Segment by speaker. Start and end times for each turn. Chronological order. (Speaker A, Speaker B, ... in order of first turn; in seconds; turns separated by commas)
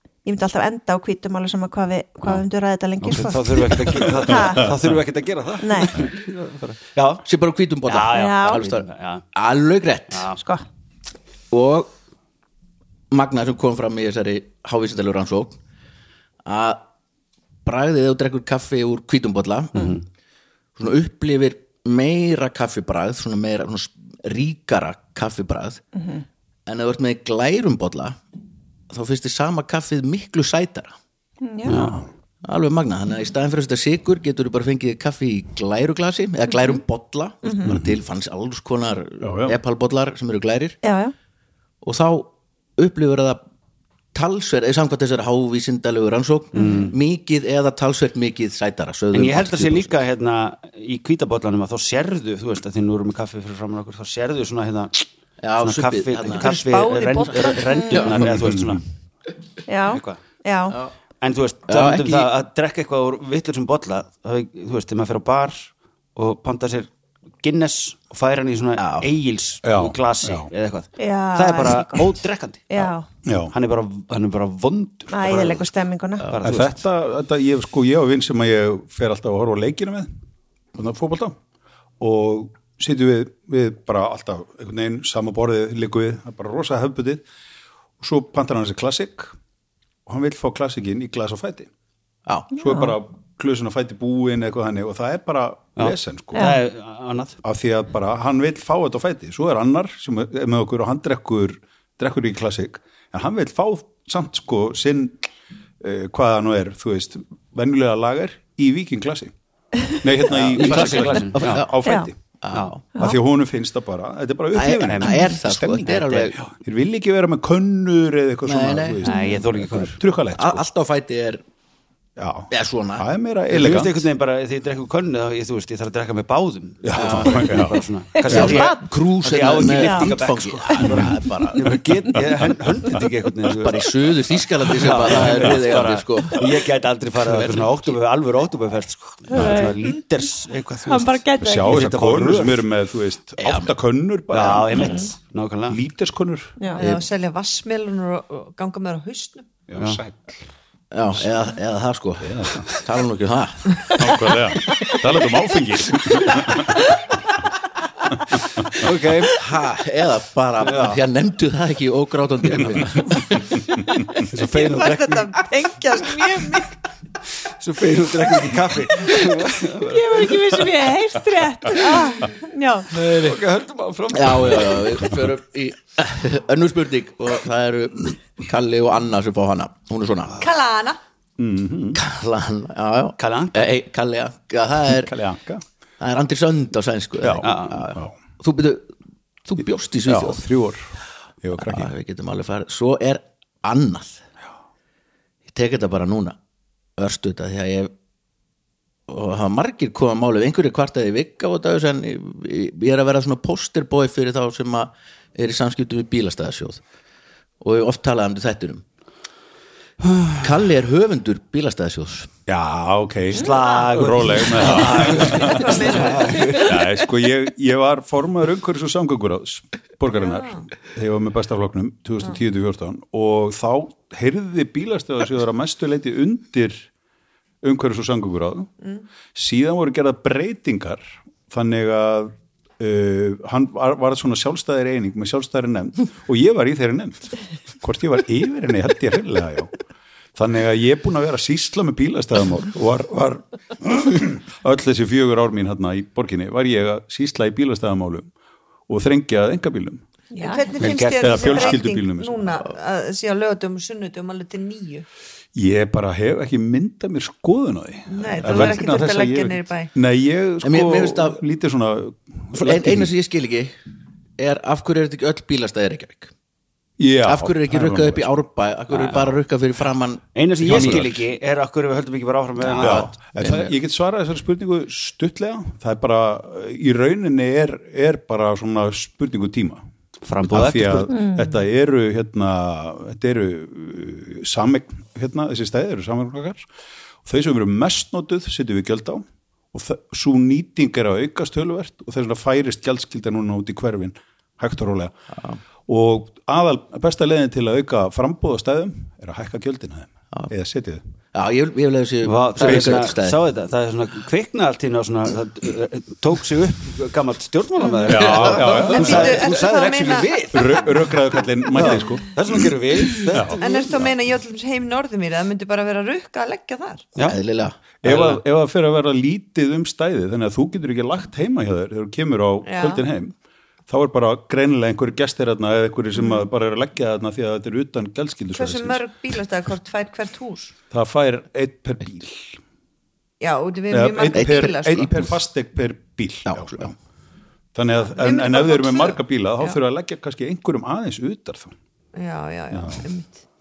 Speaker A: 0.2-4.7, Speaker B: 3.0-7.2, Speaker C: 4.4-4.9, Speaker A: 5.6-6.0, Speaker D: 7.2-10.3, Speaker B: 7.9-9.2, Speaker A: 8.1-8.7, Speaker B: 10.1-10.4, Speaker A: 10.4-10.6, Speaker D: 11.5-11.9, Speaker D: 13.1-15.6, Speaker D: 16.4-16.9, Speaker D: 17.6-20.0, Speaker B: 19.8-20.0, Speaker D: 20.8-25.8, Speaker A: 25.9-26.2, Speaker D: 26.6-28.2, Speaker D: 28.9-30.9, Speaker A: 31.4-31.8, Speaker B: 31.6-32.0, Speaker C: 31.7-32.0, Speaker D: 32.4-40.8, Speaker A: 37.4-37.7, Speaker C: 37.7-38.0, Speaker C: 39.2-39.5, Speaker A: 40.8-41.1, Speaker D: 41.8-43.4, Speaker D: 44.1-50.0, Speaker A: 46.5-46.9, Speaker B: 46.6-46.9, Speaker B: 49.1-55.0, Speaker D: 55.4-56.5, Speaker B: 55.6-58.8, Speaker E: 56.3-58.0, Speaker D: 57.5-58.2, Speaker A: 57.7-58.0, Speaker C: 58.1-58.8, Speaker A: 59.7-60.8, Speaker B: 59.9-60.2, Speaker B: 61.2-66.9, Speaker D: 61.7-62.3, Speaker B: 67.4-72.9, Speaker D: 68.8-69.1, Speaker C: 69.6-70.5, Speaker A: 71.0-72.1, Speaker A: 72.7-73.0, Speaker C: 73.2-73.5, Speaker B: 73.5-75.7, Speaker A: 75.1-76.3, Speaker B: 76.3-76.8, Speaker C: 76.4-80.1, Speaker C: 80.7-81.4, Speaker C: 82.0-87.2, Speaker C: 88.0-89.3, Speaker C: 90.0-91.7, Speaker C: 92.5-96.6, Speaker A: 92.6-92.9, Speaker B: 95.8-97.4, Speaker A: 96.3-96.6, Speaker C: 97.4-105.2, Speaker C: 105.8-109.3, Speaker C: 109.9-112.4, Speaker B: 110.4-111.7, Speaker D: 110.4-111.8, Speaker A: 111.8-112.1, Speaker D: 112.4-112.8, Speaker C: 112.9-120.6, Speaker D: 114.5-116.4, Speaker B: 114.9-115.2, Speaker D: 118.5-119.0, Speaker B: 119.0-120.0, Speaker A: 119.0-119.4, Speaker D: 120.3-121.4, Speaker C: 122.2-124.0, Speaker D: 122.5-123.0, Speaker B: 123.5-133.9, Speaker C: 126.8-127.8, Speaker D: 126.9-127.6, Speaker A: 128.1-128.8, Speaker D: 128.3-131.8, Speaker A: 129.8-130.1, Speaker C: 130.8-131.1, Speaker C: 132.2-133.0, Speaker D: 133.6-137.9, Speaker B: 134.7-142.6, Speaker C: 135.1-135.6, Speaker A: 139.3-139.9, Speaker C: 139.3-139.7, Speaker A: 140.8-141.9, Speaker C: 141.4-145.1, Speaker D: 143.4-143.7, Speaker B: 144.3-145.8, Speaker C: 145.7-146.6, Speaker E: 146.7-149.5, Speaker C: 149.7-150.4, Speaker D: 150.9-154.1, Speaker C: 152.2-152.7, Speaker C: 153.9-156.9, Speaker C: 158.3-158.7, Speaker B: 158.7-159.4, Speaker D: 159.3-163.6, Speaker B: 160.6-161.0, Speaker B: 164.2-165.3, Speaker E: 164.3-166.7, Speaker A: 165.5-166.6, Speaker B: 167.4-170.4, Speaker A: 169.8-172.9, Speaker B: 172.9-175.1, Speaker D: 174.1-180.4, Speaker E: 180.4-181.0, Speaker C: 181.4-182.0, Speaker D: 181.9-185.1, Speaker B: 183.2-183.7, Speaker C: 184.9-185.6, Speaker D: 186.0-188.9, Speaker C: 187.2-188.2, Speaker B: 187.4-187.8, Speaker D: 189.4-190.4, Speaker C: 190.1-190.9, Speaker C: 191.4-191.9, Speaker D: 191.6-194.2, Speaker D: 195.5-196.4, Speaker D: 197.0-197.9, Speaker D: 199.1-206.8, Speaker D: 207.6-208.8, Speaker B: 210.1-210.4, Speaker D: 210.3-212.3, Speaker C: 212.5-226.9, Speaker B: 213.3-216.8, Speaker E: 213.4-213.8, Speaker E: 214.8-216.7, Speaker E: 220.1-220.7, Speaker C: 227.6-228.7, Speaker C: 229.3-239.7, Speaker C: 240.3-248.3, Speaker C: 248.9-250.0, Speaker A: 250.3-250.7, Speaker E: 250.3-255.1, Speaker B: 250.8-251.8, Speaker C: 251.2-252.6, Speaker C: 255.5-263.1, Speaker E: 258.1-259.9, Speaker D: 260.6-261.4, Speaker D: 262.5-263.7, Speaker D: 264.4-266.3, Speaker C: 267.0-268.3, Speaker D: 267.2-271.1, Speaker B: 268.9-269.3, Speaker B: 270.3-273.6, Speaker C: 270.6-271.2, Speaker D: 272.7-273.7, Speaker C: 272.7-279.8, Speaker B: 280.2-281.2, Speaker C: 280.5-286.6, Speaker C: 287.2-295.1, Speaker C: 295.9-301.0, Speaker D: 301.3-303.4, Speaker B: 302.2-311.1, Speaker C: 302.6-303.1, Speaker C: 308.0-309.4, Speaker D: 308.2-309.2, Speaker E: 308.8-310.8, Speaker C: 310.5-313.6, Speaker B: 311.7-313.8, Speaker E: 313.6-317.1, Speaker D: 317.2-317.8, Speaker C: 318.0-323.3, Speaker B: 318.0-318.4, Speaker E: 322.6-323.0, Speaker C: 323.9-329.0, Speaker E: 326.1-326.4, Speaker E: 328.5-330.7, Speaker C: 330.9-332.6, Speaker E: 333.4-335.1, Speaker C: 333.9-336.9, Speaker D: 334.3-335.3, Speaker D: 336.5-336.9, Speaker C: 337.7-341.7, Speaker E: 338.1-339.8, Speaker E: 342.1-343.4, Speaker C: 342.7-343.0